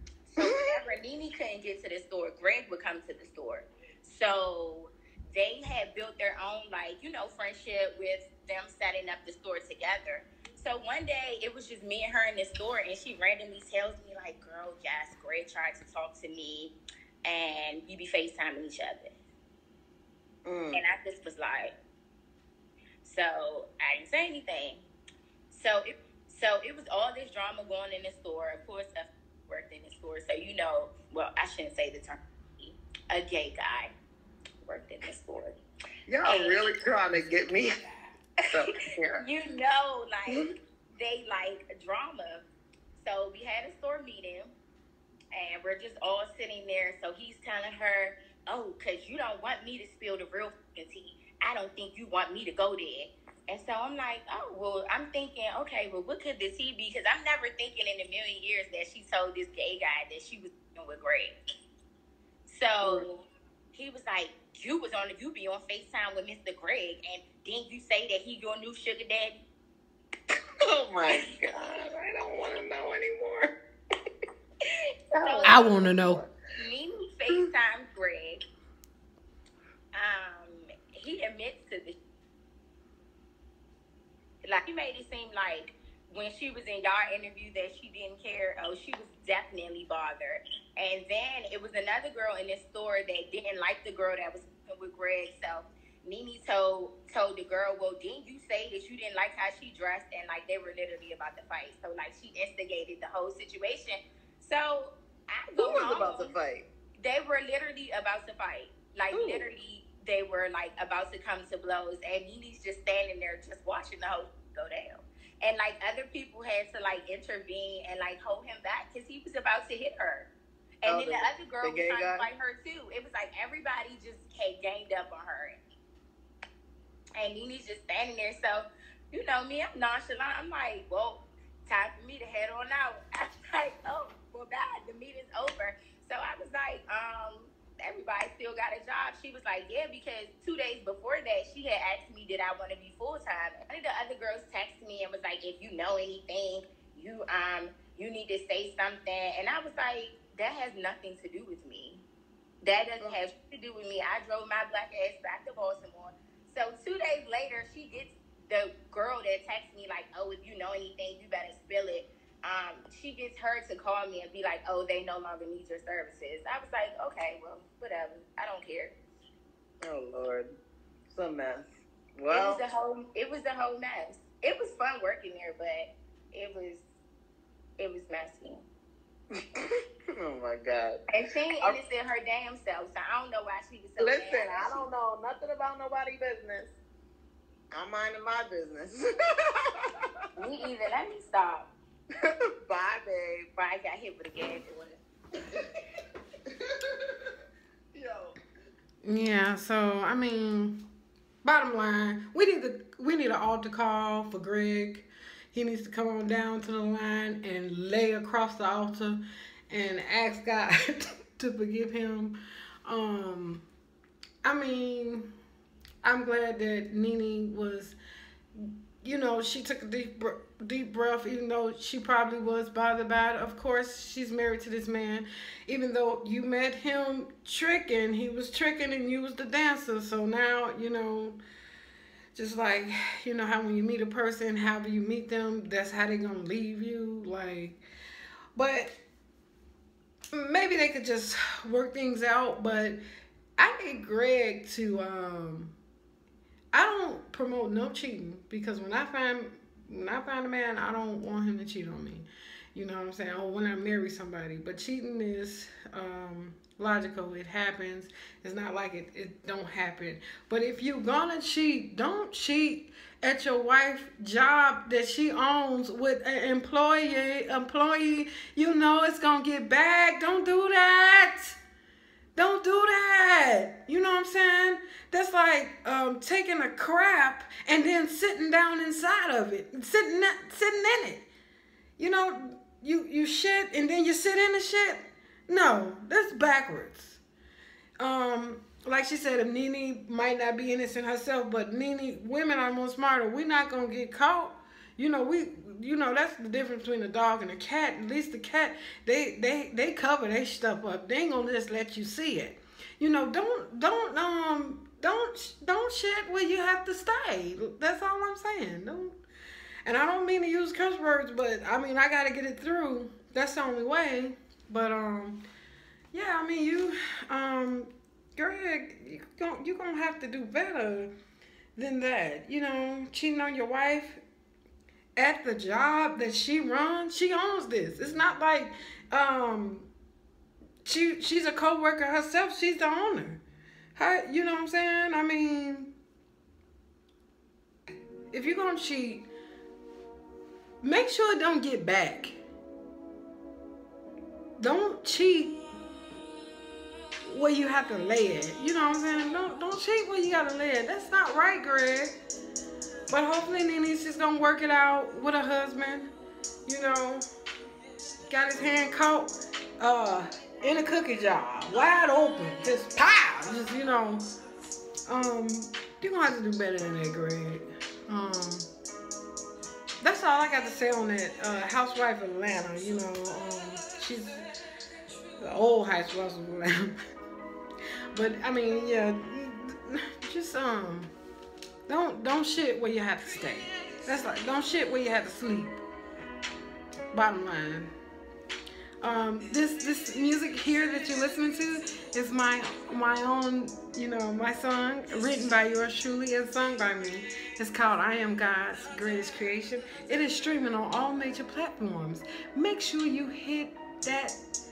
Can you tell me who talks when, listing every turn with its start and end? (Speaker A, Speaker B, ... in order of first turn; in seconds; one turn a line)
Speaker A: 0.3-16.7
Speaker B: 0.4-0.8
Speaker A: 17.2-19.1
Speaker B: 20.5-20.8
Speaker A: 20.7-21.7
Speaker A: 23.0-24.9
Speaker A: 25.5-33.9
Speaker A: 34.6-35.6
Speaker B: 36.1-37.7
Speaker A: 36.2-36.7
Speaker B: 38.5-39.3
Speaker A: 39.1-42.5
Speaker A: 43.0-44.5
Speaker A: 45.3-61.4
Speaker A: 62.5-69.4
Speaker B: 62.8-63.1
Speaker B: 70.7-73.5
Speaker A: 75.1-75.7
Speaker B: 75.1-76.3
Speaker C: 75.5-76.2
Speaker A: 76.6-78.4
Speaker A: 80.0-82.0
Speaker A: 84.5-106.3
Speaker B: 105.6-106.7
Speaker A: 107.0-120.3
Speaker B: 109.1-109.5
Speaker A: 120.8-125.6
Speaker B: 120.9-122.3
Speaker A: 127.2-152.0
Speaker A: 152.6-168.9
Speaker B: 169.8-170.5
Speaker B: 171.1-172.7
Speaker A: 172.3-176.8
Speaker A: 177.8-178.6
Speaker B: 179.6-181.0
Speaker A: 181.1-184.9
Speaker B: 184.0-186.7
Speaker B: 187.7-189.0
Speaker A: 190.4-191.7
Speaker B: 192.3-193.5
Speaker A: 193.6-195.0
Speaker B: 197.9-198.3
Speaker C: 199.0-200.8
Speaker C: 201.4-213.6
Speaker C: 214.4-215.3
Speaker C: 216.0-218.0
Speaker C: 218.6-231.4
Speaker C: 232.3-237.8
Speaker C: 238.6-239.0
Speaker C: 240.3-243.0
Speaker C: 243.6-245.8
Speaker C: 246.7-271.6
Speaker C: 272.4-281.3
Speaker C: 282.0-287.2
Speaker C: 288.0-309.1
Speaker C: 309.9-315.4
Speaker C: 316.1-321.1
Speaker C: 321.8-324.2
Speaker C: 325.2-329.9
Speaker C: 330.9-333.4
Speaker C: 334.0-335.9
Speaker C: 338.3-339.3
Speaker C: 340.8-342.4
Speaker C: 344.6-345.6
Speaker C: 347.2-352.2
Speaker C: 353.1-356.1
Speaker C: 356.7-357.2
Speaker C: 358.3-364.2
Speaker C: 365.1-368.7
Speaker C: 370.0-374.4
Speaker C: 375.4-376.9
Speaker C: 378.1-381.1
Speaker C: 381.9-385.8
Speaker C: 387.1-387.9
Speaker C: 389.0-404.4